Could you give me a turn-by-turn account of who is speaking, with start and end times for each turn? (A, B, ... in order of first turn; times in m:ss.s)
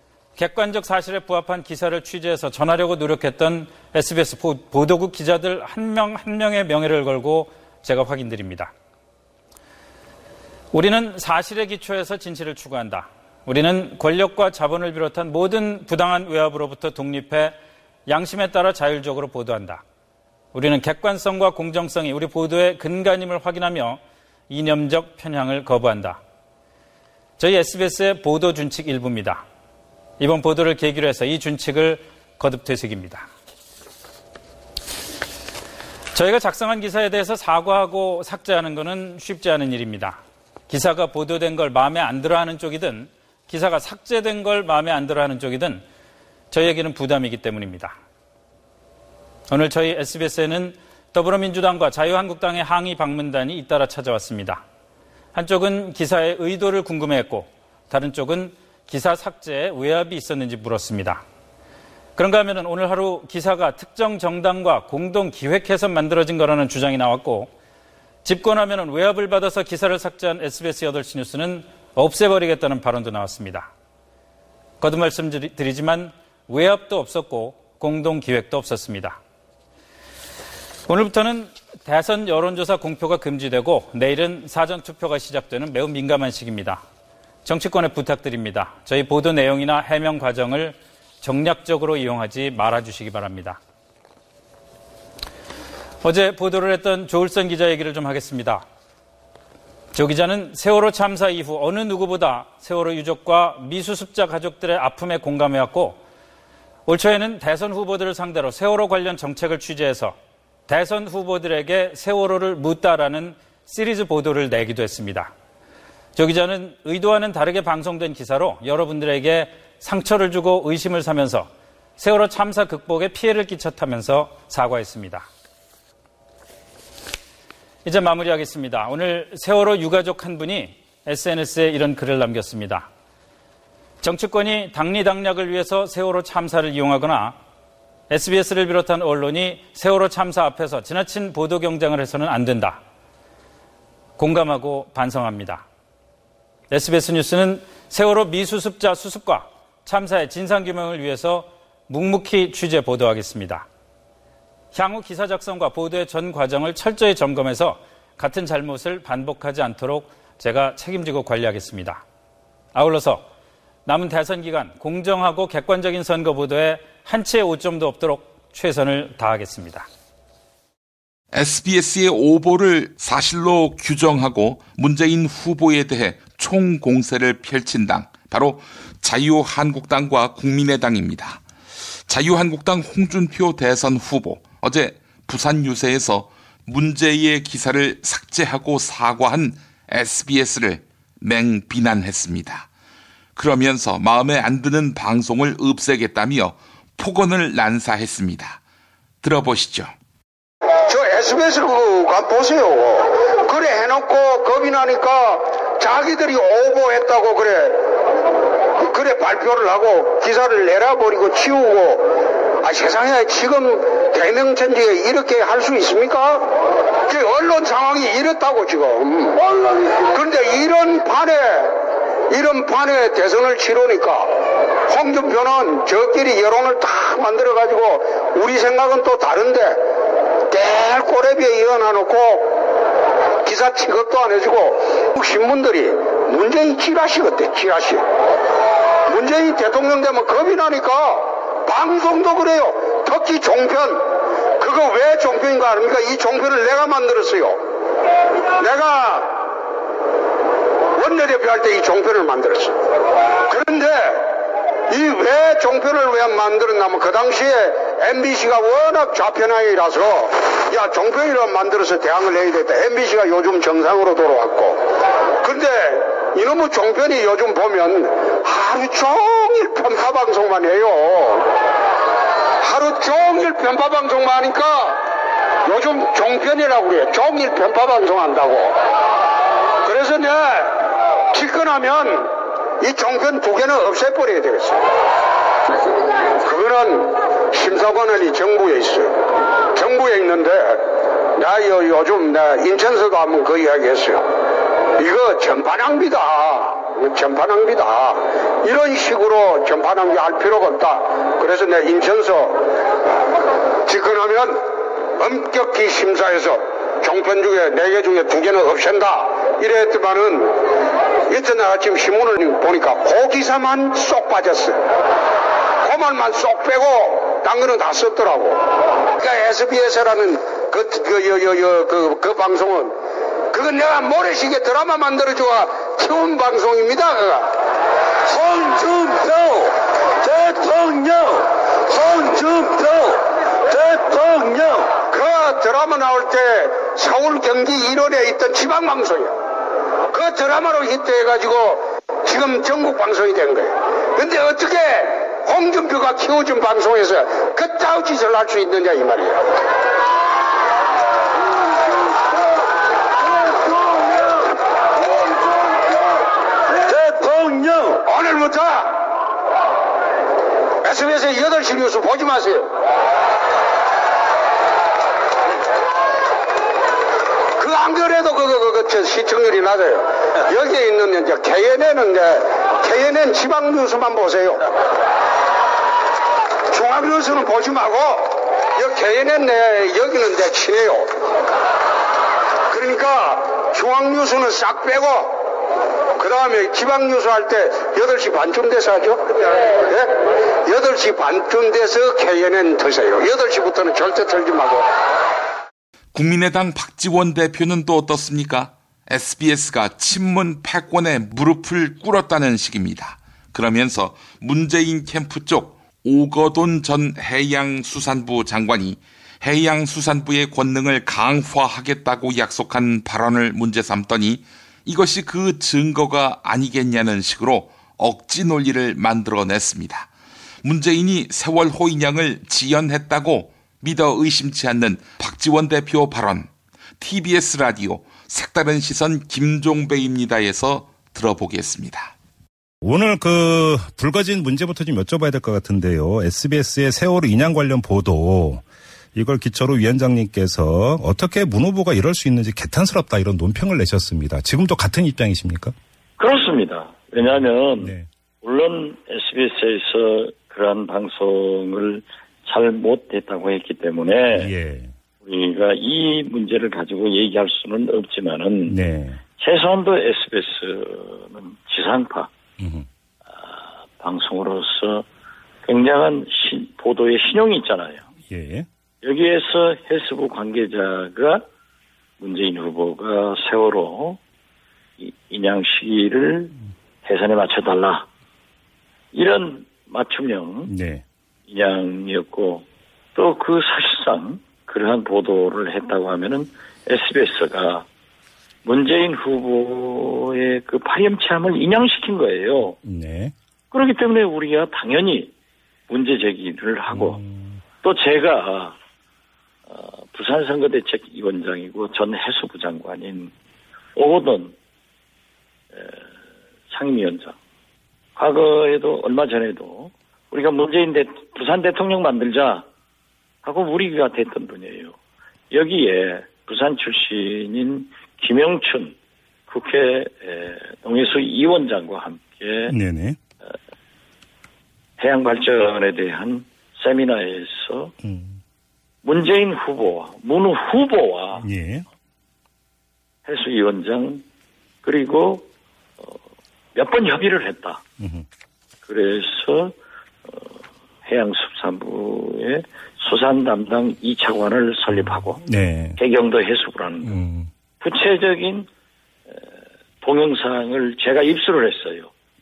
0:00.4-0:08.7 A
0:10.7-0:19.8 A
0:20.5-0:26.2 A
0:27.4-0:29.4 A
0:30.2-0:33.3 A
0:36.1-0:45.8 A
0:46.5-0:48.0 A
0:49.5-0:54.6 A
0:55.3-1:01.2 A
1:02.2-1:07.5 A
1:08.2-1:13.7 A
1:14.8-1:19.2 A
1:20.9-1:26.8 A
1:27.4-1:33.6 A
1:36.0-1:38.6 A
1:39.9-1:46.0 A
1:46.9-1:50.2 A
1:50.7-1:55.3 A
1:56.1-2:05.3 A
2:07.8-2:12.9 A
2:14.0-2:17.4 A
2:18.1-2:22.8 A
2:24.2-2:25.6 A
2:26.7-2:33.7 A
2:34.7-2:42.0 A
2:42.7-2:43.3 A
2:43.9-2:49.9 A
2:51.3-3:01.4 B
3:02.1-3:12.7 B
3:13.4-3:18.6 B
3:19.2-3:19.9 B
3:20.9-3:27.9 C
3:28.8-3:36.5 C
3:37.1-3:39.4 C
3:40.1-3:49.8 C
3:50.5-3:52.6 C
3:53.4-3:58.1 C
3:59.1-4:07.6 C
4:08.6-4:09.5 C
4:11.0-4:12.8 C
4:13.5-4:24.9 C
4:25.4-4:31.5 C
4:32.6-4:35.0 C
4:35.6-4:38.8 C
4:39.8-4:44.8 C
4:46.4-4:49.2 C
4:49.7-4:54.3 C
4:55.0-5:02.7 C
5:03.9-5:10.6 C
5:11.3-5:14.8 C
5:15.8-5:23.0 C
5:23.5-5:27.5 C
5:28.3-5:39.4 C
5:40.1-5:49.4 C
5:56.9-5:59.1 C
6:00.8-6:02.7 C
6:07.6-6:14.7 C
6:16.7-6:21.1 C
6:22.7-6:25.4 C
6:26.2-6:34.9 C
6:36.1-7:00.1 B
7:00.6-7:12.1 B
7:12.8-7:18.6 D
7:19.1-7:25.8 D
7:26.2-7:34.5 E
7:27.8-7:28.1 D
7:34.4-7:34.9 D
7:35.2-7:38.8 E
7:38.7-7:39.2 D
7:39.4-7:42.3 E
7:42.6-7:42.9 D
7:43.4-7:45.1 E
7:45.6-7:48.1 E
7:48.3-7:48.7 D
7:49.0-7:51.4 E
7:52.2-7:54.2 E
7:55.0-7:58.1 E
7:59.1-8:00.7 E
8:00.7-8:01.0 D
8:01.5-8:07.8 E
8:08.6-8:12.8 E
8:12.8-8:13.3 D
8:13.7-8:15.3 E
8:15.9-8:17.2 E
8:16.9-8:17.6 D
8:17.8-8:18.8 E
8:19.7-8:23.3 E
8:24.0-8:24.6 E
8:25.7-8:26.1 E
8:26.7-8:27.4 E
8:28.2-8:32.6 E
8:33.4-8:35.0 E
8:35.5-8:39.0 E
8:39.5-8:42.7 E
8:42.7-8:43.2 D
8:45.0-8:47.9 E
8:48.0-8:48.4 D
8:49.0-8:51.4 E
8:51.4-8:51.8 D
8:53.3-8:54.2 E
8:54.8-8:55.5 E
8:56.8-8:57.8 E
8:58.0-8:58.3 D
8:58.9-8:59.8 E
9:00.3-9:00.5 E
9:01.1-9:05.4 E
9:04.9-9:06.0 D
9:06.0-9:07.2 E
9:07.0-9:07.5 D
9:07.8-9:08.7 E
9:10.0-9:12.1 E